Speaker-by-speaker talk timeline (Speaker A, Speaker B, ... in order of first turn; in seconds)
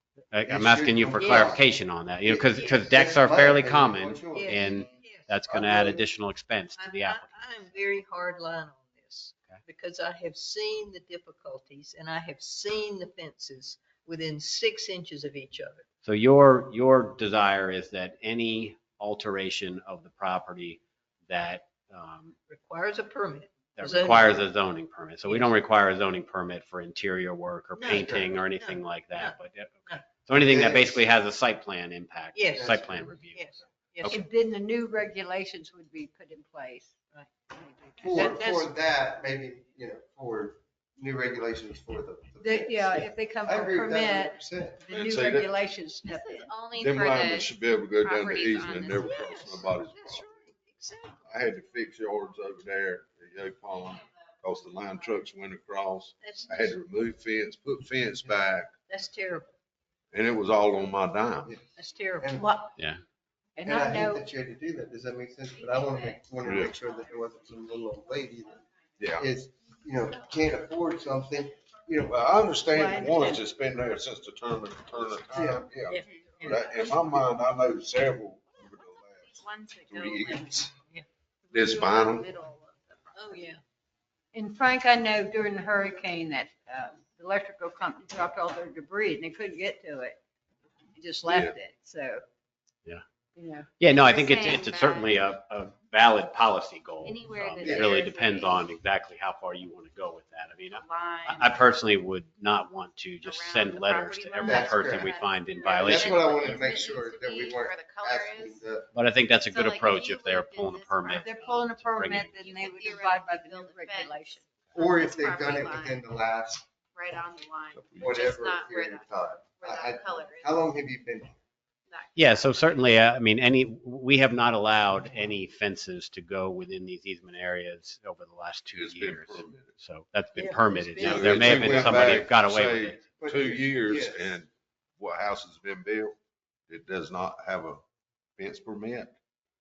Speaker A: 0.3-7.3, 16.0-22.4, 23.8-33.5, 93.8-106.3, 108.9-112.4, 122.2-133.0
Speaker B: 0.5-1.7, 2.2-4.9, 5.5-6.0, 27.9-28.3, 30.3-31.0, 32.5-33.1, 38.0-44.8, 62.2-62.5, 63.6-68.6, 69.2-72.2, 75.3-75.7, 97.6-98.1, 104.5-105.1, 105.8-108.9, 114.8-116.7, 117.8-121.4, 133.2-134.4
Speaker C: 4.3-5.3, 6.8-15.8, 22.5-24.4, 25.3-25.5, 27.8-29.4, 32.3-32.8, 33.3-34.2, 38.1-38.7, 49.0-51.3, 56.2-56.8, 58.9-59.5, 61.8-62.4, 75.9-76.4, 80.8-81.0, 83.2-83.6, 130.4-132.2
Speaker D: 34.1-38.4, 42.4-46.6, 62.4-62.7, 63.6-64.2, 72.7-73.4, 80.2-80.6, 81.5-82.5, 84.3-90.2, 91.0-92.2, 93.4-93.7, 111.2-114.4
Speaker E: 44.9-45.5, 46.8-50.2, 51.3-58.7, 60.1-61.5, 66.4-66.7, 69.0-69.3, 72.1-80.7, 81.5-82.3, 91.2-91.5, 128.7-129.7, 131.0-136.2, 136.7-137.8, 138.4-139.2
Speaker F: 46.0-49.3, 65.6-68.0, 76.0-77.0, 79.2-80.2, 82.3-83.5, 93.9-95.2, 97.0-98.7, 100.7-101.7, 103.2-108.6, 109.4-116.0, 116.9-120.8, 121.9-122.7